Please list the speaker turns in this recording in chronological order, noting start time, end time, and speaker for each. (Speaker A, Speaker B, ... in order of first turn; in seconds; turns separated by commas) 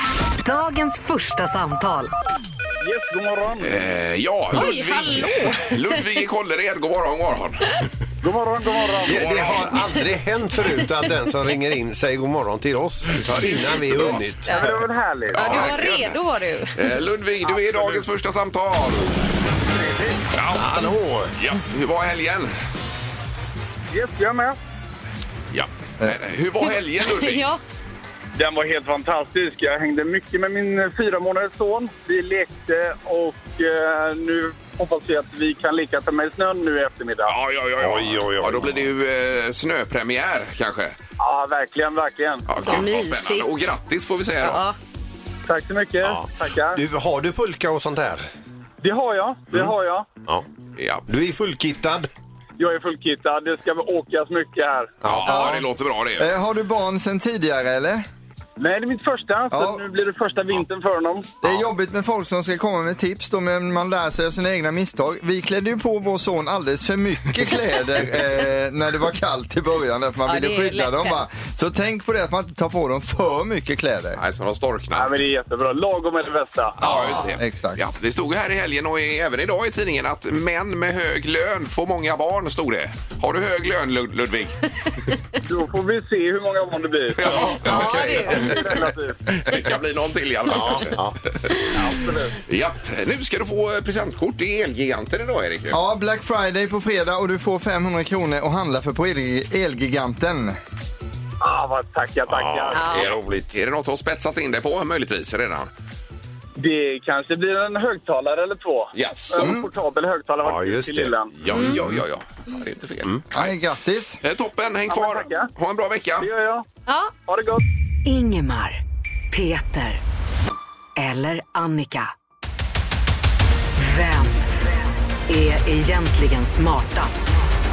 Speaker A: 0.4-2.1, Speaker B: 2.8-3.8, Speaker C: 3.6-7.9, Speaker D: 4.5-6.0, Speaker B: 8.2-9.6, Speaker E: 9.0-14.6, Speaker C: 9.1-9.7, Speaker C: 13.1-14.4, Speaker D: 14.5-14.8, Speaker B: 14.5-15.7, Speaker D: 15.3-16.8, Speaker C: 15.3-16.2, Speaker C: 16.7-19.2, Speaker B: 17.5-18.0, Speaker B: 19.7-20.2, Speaker C: 20.3-20.8, Speaker E: 20.5-21.3, Speaker C: 21.4-22.5, Speaker B: 23.9-24.6, Speaker C: 25.5-27.5, Speaker D: 26.6-27.6, Speaker B: 28.3-37.3, Speaker C: 37.3-40.9, Speaker E: 37.8-38.9, Speaker B: 41.2-42.5, Speaker C: 42.5-44.6, Speaker D: 42.6-43.5, Speaker D: 44.4-44.8, Speaker B: 45.5-46.8, Speaker E: 46.0-48.2, Speaker B: 48.8-50.1, Speaker C: 50.8-51.0, Speaker E: 51.1-52.1, Speaker B: 52.6-54.9, Speaker E: 55.0-55.5, Speaker C: 55.0-56.3, Speaker F: 55.2-58.0, Speaker B: 58.6-61.4, Speaker F: 59.5-59.8, Speaker F: 61.4-74.2, Speaker D: 70.2-71.2, Speaker C: 74.2-75.1, Speaker B: 74.9-77.2, Speaker C: 76.8-84.6, Speaker F: 77.0-77.8, Speaker B: 85.4-89.2, Speaker C: 87.2-88.7, Speaker D: 87.2-88.5, Speaker E: 87.3-88.9, Speaker C: 89.3-91.0, Speaker E: 90.5-91.2, Speaker B: 91.7-92.4, Speaker C: 92.4-95.8, Speaker F: 95.7-100.6, Speaker B: 101.4-102.9, Speaker E: 102.3-103.6, Speaker C: 102.7-105.7, Speaker D: 102.7-103.1, Speaker B: 106.6-111.3, Speaker C: 108.9-109.5, Speaker F: 109.4-109.6, Speaker E: 110.4-112.0, Speaker C: 111.4-113.5, Speaker D: 111.5-111.8, Speaker F: 113.3-114.2, Speaker C: 114.2-116.3, Speaker B: 114.9-115.5, Speaker B: 116.2-116.6, Speaker D: 116.9-117.1, Speaker B: 117.2-117.6, Speaker A: 118.0-118.8, Speaker A: 119.3-120.0, Speaker A: 121.0-122.1, Speaker A: 123.8-124.5, Speaker A: 125.3-127.4